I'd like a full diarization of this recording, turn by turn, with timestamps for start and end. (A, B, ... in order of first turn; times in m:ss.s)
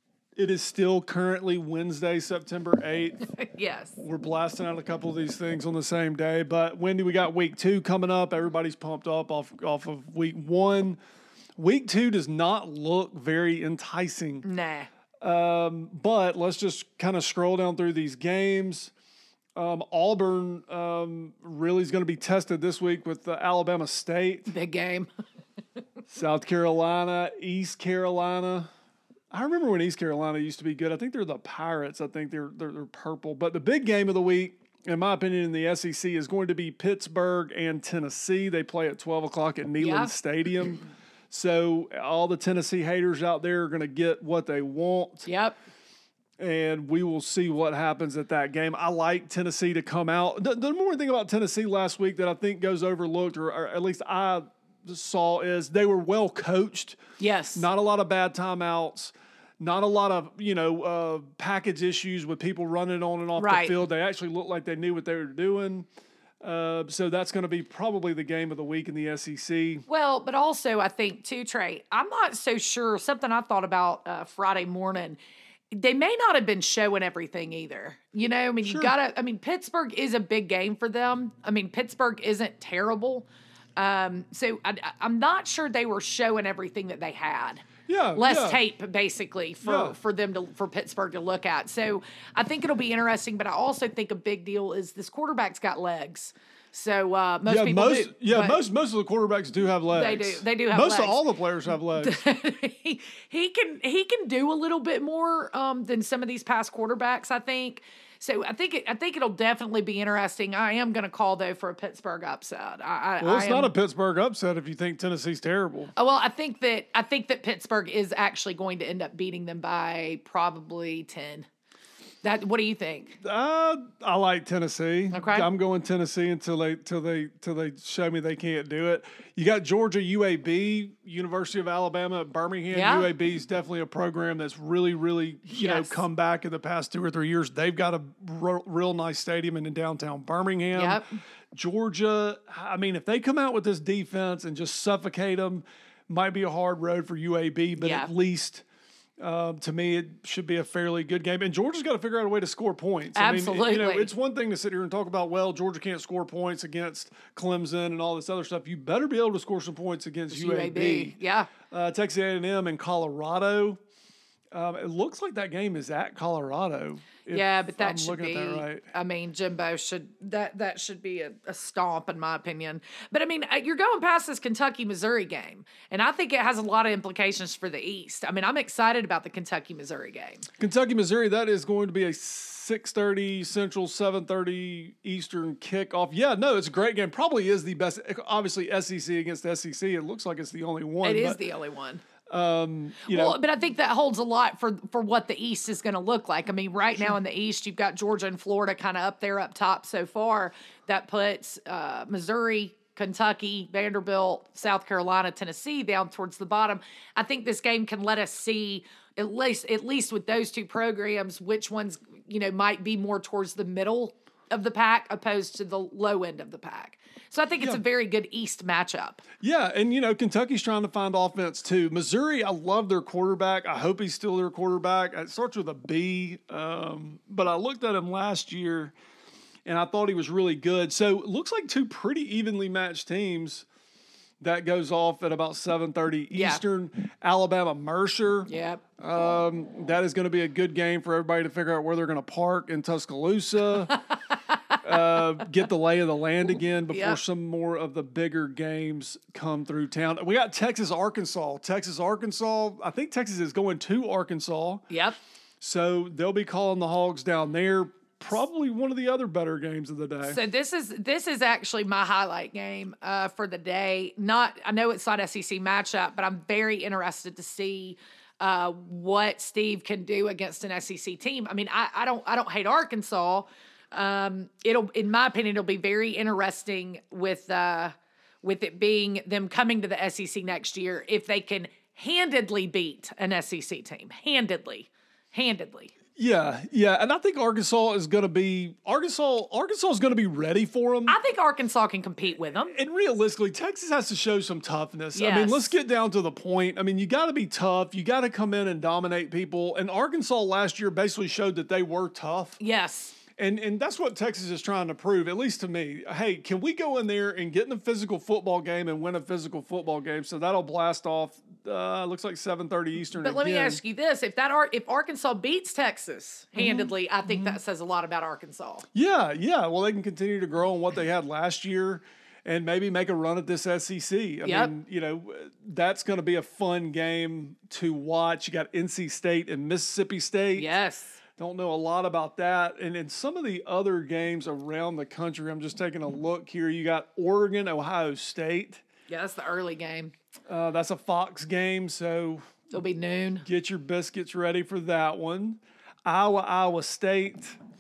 0:00.4-0:03.3 A
0:03.3-0:04.0 B
0:04.0-0:11.0 A
0:11.6-0:14.4 A
0:14.4-0:14.9 B
0:15.2-0:18.9 A
0:19.6-0:24.5 A
0:24.5-0:25.1 B
0:26.1-0:28.7 A
0:29.3-0:45.3 A
0:39.8-0:40.1 B
0:45.3-0:45.6 B
0:46.4-0:57.0 A
0:57.2-0:57.7 B
0:57.6-1:05.9 A
1:03.4-1:03.9 B
1:06.4-1:09.8 A
1:09.9-1:15.2 B
1:15.7-1:38.6 B
1:18.6-1:19.0 A
1:27.9-1:28.6 A
1:29.6-1:30.0 A
1:37.5-1:42.2 A
1:39.9-1:41.2 B
1:42.0-1:53.7 B
1:53.2-1:55.9 A
1:56.0-2:01.5 B
2:02.2-2:03.2 B
2:03.2-2:21.0 A
2:05.1-2:05.5 B
2:12.7-2:13.1 B
2:15.5-2:16.0 B
2:20.7-2:21.1 B
2:21.5-2:28.6 A
2:27.8-2:28.1 B
2:29.2-2:41.2 A
2:33.2-2:34.1 B
2:40.3-2:41.5 B
2:41.7-2:43.8 A
2:44.5-2:48.9 A
2:47.3-3:00.5 B
3:00.6-3:11.4 A
3:11.0-3:12.0 B
3:12.3-3:13.4 A
3:13.1-3:39.2 B
3:39.4-3:49.0 A
3:49.7-3:53.7 A
3:54.4-4:03.9 A
3:56.3-3:56.6 B
3:58.5-3:58.8 B
4:03.9-4:05.5 B
4:04.8-4:14.8 A
4:06.9-4:07.2 B
4:14.9-4:15.2 B
4:15.6-4:20.4 A
4:20.2-4:45.9 B
4:46.2-4:51.2 A
4:51.1-4:52.8 B
4:52.6-5:02.6 A
4:55.2-4:55.8 B
5:02.6-5:03.2 B
5:03.4-5:13.8 A
5:13.1-5:18.9 B
5:16.6-5:17.6 A
5:18.9-5:30.7 A
5:24.4-5:24.7 B
5:30.6-5:31.2 B
5:31.4-5:38.8 A
5:39.1-5:40.1 B
5:40.5-5:42.4 A
5:42.7-5:43.4 B
5:43.4-5:47.6 A